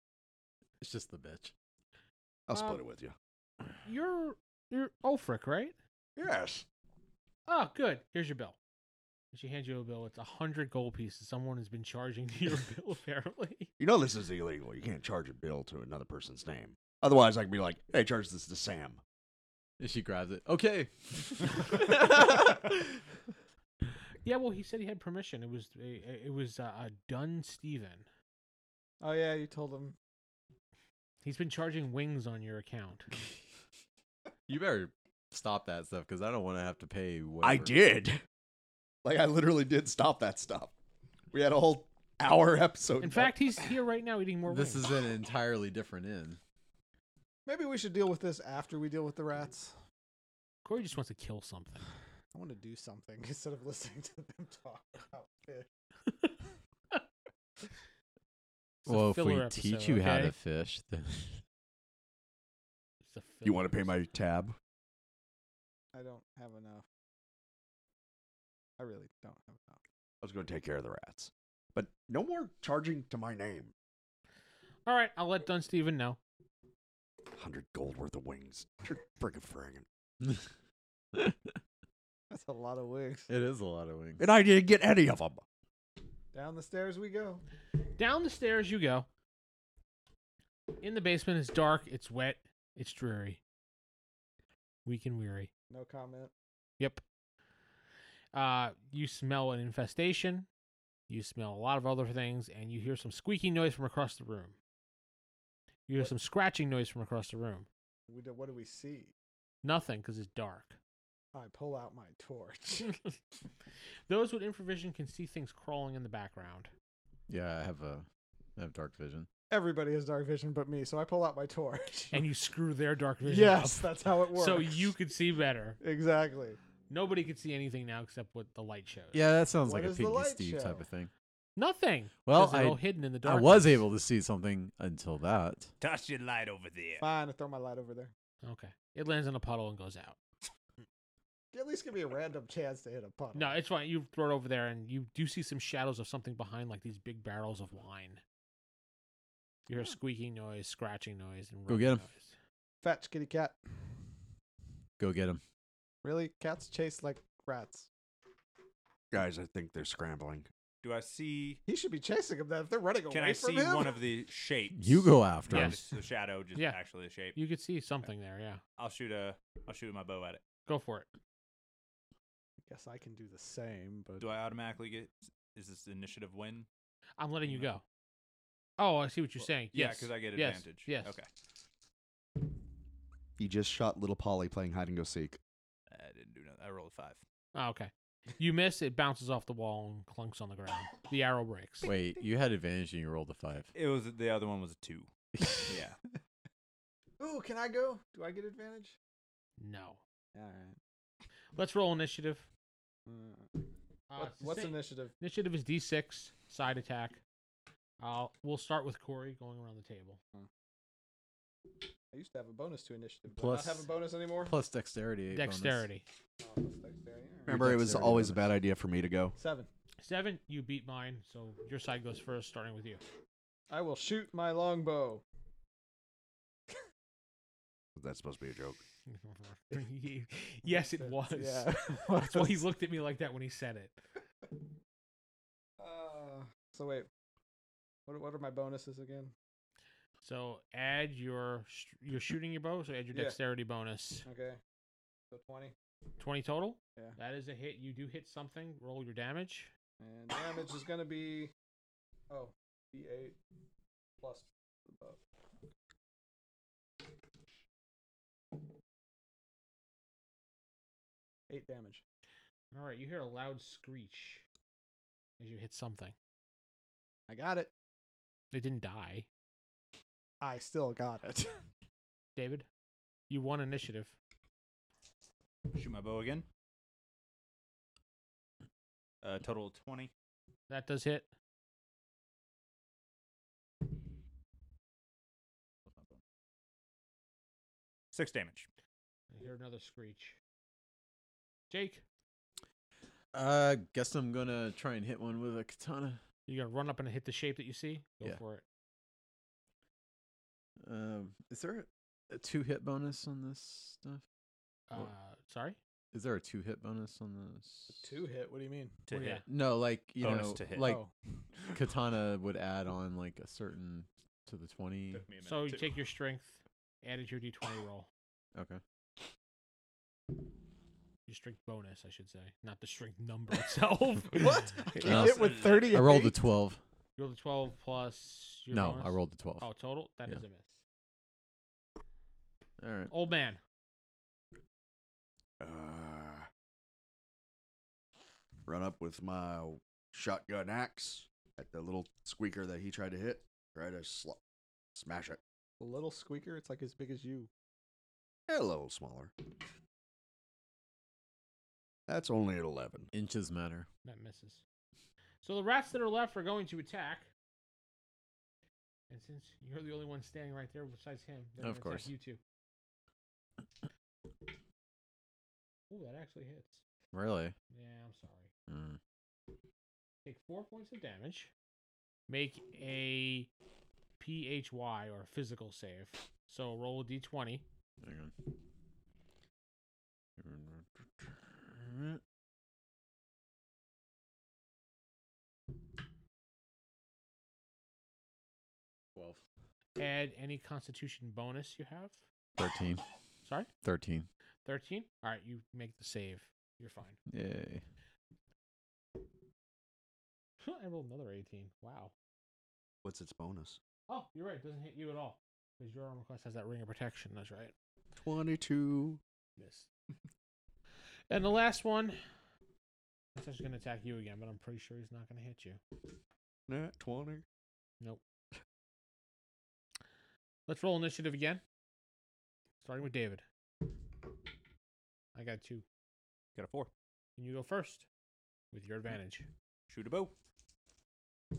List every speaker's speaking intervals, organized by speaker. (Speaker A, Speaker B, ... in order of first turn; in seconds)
Speaker A: 0.8-1.5, 19.8-23.0, 34.5-37.7, 44.5-46.4, 58.9-61.4, 81.1-81.5, 83.3-84.2, 117.3-119.3, 129.1-131.1, 132.2-135.7, 151.7-152.0, 155.0-155.4, 164.8-165.8, 191.8-193.7, 213.3-213.9, 214.4-215.9, 217.5-218.5, 293.3-296.2, 300.8-304.2, 306.1-308.1, 309.5-311.1, 311.7-315.2, 318.6-318.8, 325.0-326.8, 328.7-329.7, 332.8-333.1, 353.1-353.9, 361.6-362.1, 367.1-367.5, 368.7-369.0, 378.0-378.3, 380.4-382.2, 389.1-389.4, 392.6-393.0, 393.8-394.3, 397.3-397.8
Speaker B: 2.5-3.1, 6.2-6.7, 13.8-19.0, 37.4-38.2, 39.0-40.7, 41.3-43.4, 63.4-64.6, 70.2-73.7, 77.3-79.8, 84.2-85.4, 159.1-160.5, 183.4-185.4, 217.5-219.4, 227.9-228.8, 335.6-336.5, 338.7-344.4, 344.9-345.4, 348.5-349.3, 352.1-353.1, 403.0-403.8, 408.2-409.2, 416.7-417.4
Speaker C: 2.5-2.8, 3.8-5.8, 7.5-8.6, 9.3-13.7, 24.2-28.1, 31.2-33.1, 43.0-44.9, 50.6-51.9, 58.8-60.3, 63.0-63.9, 74.8-76.2, 88.0-89.1, 90.8-93.4, 94.8-95.5, 98.3-100.5, 101.1-104.5, 105.9-107.7, 109.6-110.8, 112.9-113.1, 114.1-116.7, 122.1-125.8, 126.9-129.2, 131.6-133.8, 138.4-140.2, 143.3-148.2, 149.7-152.3, 165.5-165.9, 166.5-166.8, 167.3-168.6, 170.7-171.1, 177.2-177.8, 178.8-181.1, 187.5-191.9, 199.6-200.0, 201.5-202.5, 204.1-207.2, 208.0-210.2, 215.3-216.0, 220.0-223.0, 229.1-233.9, 240.2-244.3, 246.2-249.7, 262.7-264.4, 265.4-266.1, 268.5-269.3, 272.4-272.7, 273.3-274.1, 280.7-281.3, 289.3-290.4, 291.7-292.0, 296.5-298.6, 304.9-305.8, 309.1-309.4, 315.4-318.1, 321.3-325.1, 327.2-330.8, 333.1-333.6, 354.0-354.6, 355.4-357.3, 359.1-362.4, 365.9-366.8, 367.7-368.5, 370.2-371.5, 372.3-373.5, 374.2-377.6, 390.0-392.2, 394.6-397.2, 400.6-402.1, 404.1-407.7, 409.6-409.9, 411.3-412.2, 413.3-415.8, 420.7-421.6, 422.8-423.4, 425.3-425.8, 427.4-428.1, 428.7-429.5
Speaker D: 29.0-29.9, 47.5-49.7, 52.3-55.7, 65.9-66.8, 68.8-69.8, 82.3-83.3, 86.3-87.4, 95.7-96.3, 108.1-109.1, 111.3-113.0, 119.5-122.2, 123.2-124.9, 125.8-126.6, 129.6-130.8, 137.0-138.1, 141.5-143.6, 152.8-153.6, 156.0-157.9, 161.7-164.0, 172.7-174.3, 197.2-198.9, 200.3-200.8, 203.1-203.5, 204.2-205.1, 212.1-214.6, 216.4-217.6, 219.4-219.7, 223.7-225.2, 231.0-232.7, 235.8-237.1, 238.1-239.3, 244.2-244.6, 245.3-245.7, 250.0-251.5, 252.3-253.4, 254.2-255.2, 261.5-262.0, 267.3-267.7, 270.4-271.5, 308.0-308.9, 310.8-311.1, 324.3-326.4, 345.8-347.5
Speaker E: 135.8-137.1, 160.8-161.6, 163.1-167.4, 168.8-170.4, 174.2-176.7, 179.7-181.3, 185.9-187.2, 193.7-195.1, 195.6-196.0, 275.7-276.4, 279.2-280.1, 285.9-286.2, 288.1-288.7, 309.1-309.4, 310.2-310.9, 315.1-315.9, 325.0-326.0, 426.6-426.9, 429.9-430.3